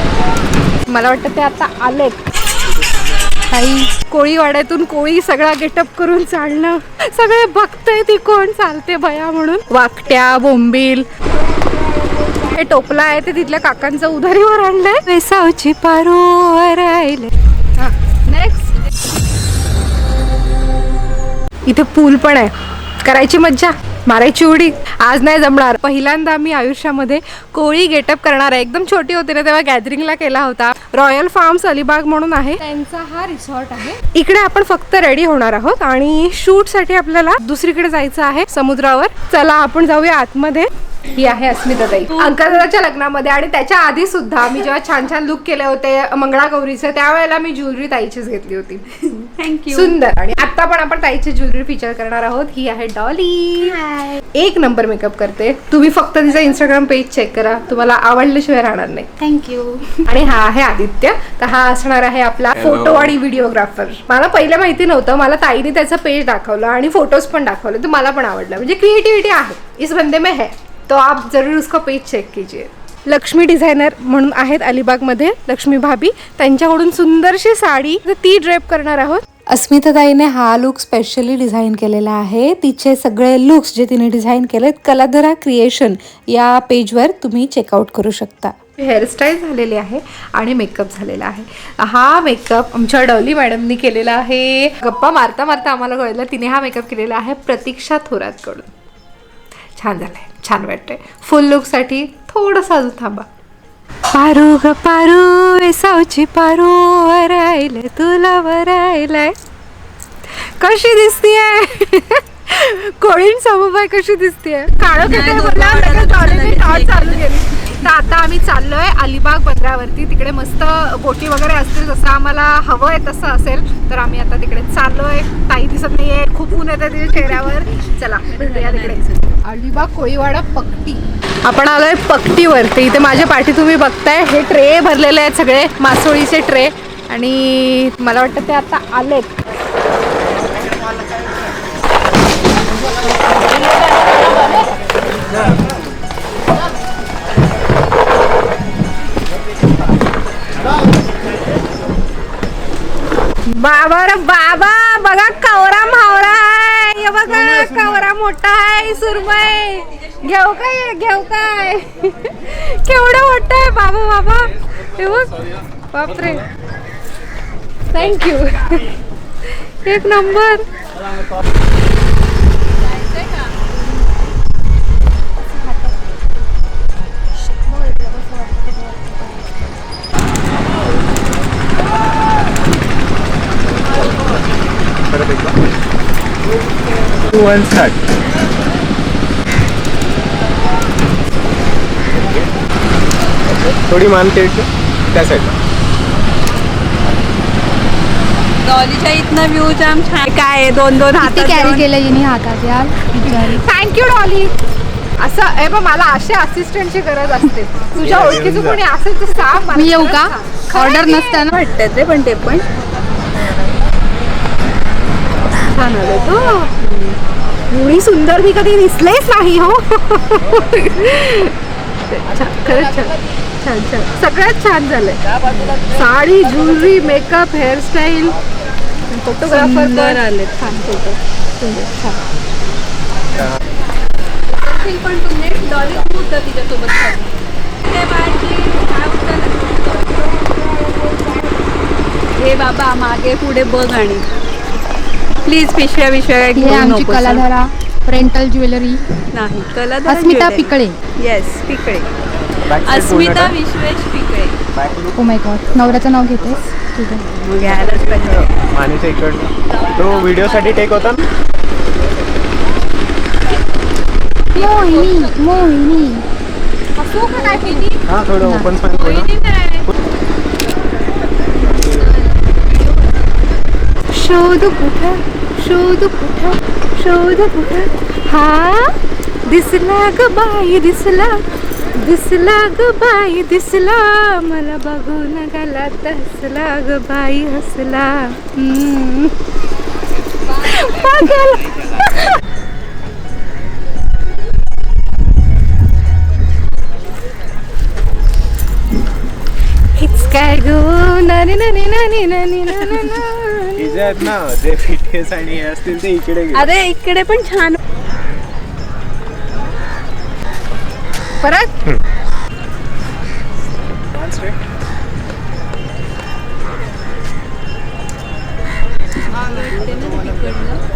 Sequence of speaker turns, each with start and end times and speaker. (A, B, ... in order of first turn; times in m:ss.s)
0:00.9-0:02.2 A
0:02.8-0:03.2 B
0:03.5-0:03.9 C
0:04.1-0:11.1 A
0:12.5-0:18.8 A
0:21.7-0:48.9 A
0:42.1-0:42.6 D
0:49.0-0:50.0 D
0:49.7-0:59.2 A
0:53.7-0:54.2 C
0:59.2-1:00.0 C
1:00.1-1:38.7 A
1:02.5-1:03.2 B
1:39.8-1:43.3 A
1:44.1-1:49.4 A
1:50.4-2:19.3 A
1:55.0-1:57.8 D
2:07.8-2:09.4 D
2:33.5-2:45.3 A
2:45.9-2:46.4 A
2:47.9-2:48.9 A
2:49.6-2:50.7 A
2:52.8-2:53.6 D
2:55.4-2:56.0 C
2:57.7-2:59.5 C
3:05.1-3:05.6 B
3:07.2-3:08.1 B
3:12.1-3:12.5 B
3:13.6-3:15.6 B
3:18.6-3:21.9 D
3:21.2-3:23.6 C
3:23.3-3:24.5 A
3:25.2-3:31.4 A
3:28.0-3:28.8 B
3:29.7-3:31.5 C
3:31.5-3:32.7 D
3:35.6-3:36.7 A
3:36.8-3:37.2 D
3:37.7-3:41.6 A
3:42.1-3:45.2 A
3:45.8-3:48.4 A
3:49.1-3:52.2 A
3:49.4-3:50.5 D
3:54.5-3:57.3 D
3:57.8-4:00.4 D
4:02.4-4:04.3 D
4:05.4-4:07.5 D
4:06.6-4:09.0 C
4:09.3-4:12.1 D
4:10.0-4:11.0 C
4:12.7-4:13.6 B
4:12.7-4:14.6 D
4:14.7-4:15.2 B
4:15.2-4:17.4 C
4:17.4-4:18.5 D
4:17.6-4:21.2 B
4:19.7-4:21.3 D
4:24.5-4:25.8 D
4:24.6-4:26.2 C
4:27.0-4:28.0 A
4:27.3-4:27.7 C
4:27.4-4:27.9 D
4:28.1-4:29.3 B
4:28.4-4:28.8 C
4:28.9-4:29.9 D
4:31.7-4:33.3 D
4:34.1-4:41.4 A
4:42.0-4:49.3 A
4:50.4-4:52.4 A
5:00.0-5:04.3 A
5:03.8-5:06.8 B
5:06.5-5:07.8 D
5:11.4-5:11.8 A
5:14.1-5:14.6 B
5:19.2-5:20.8 D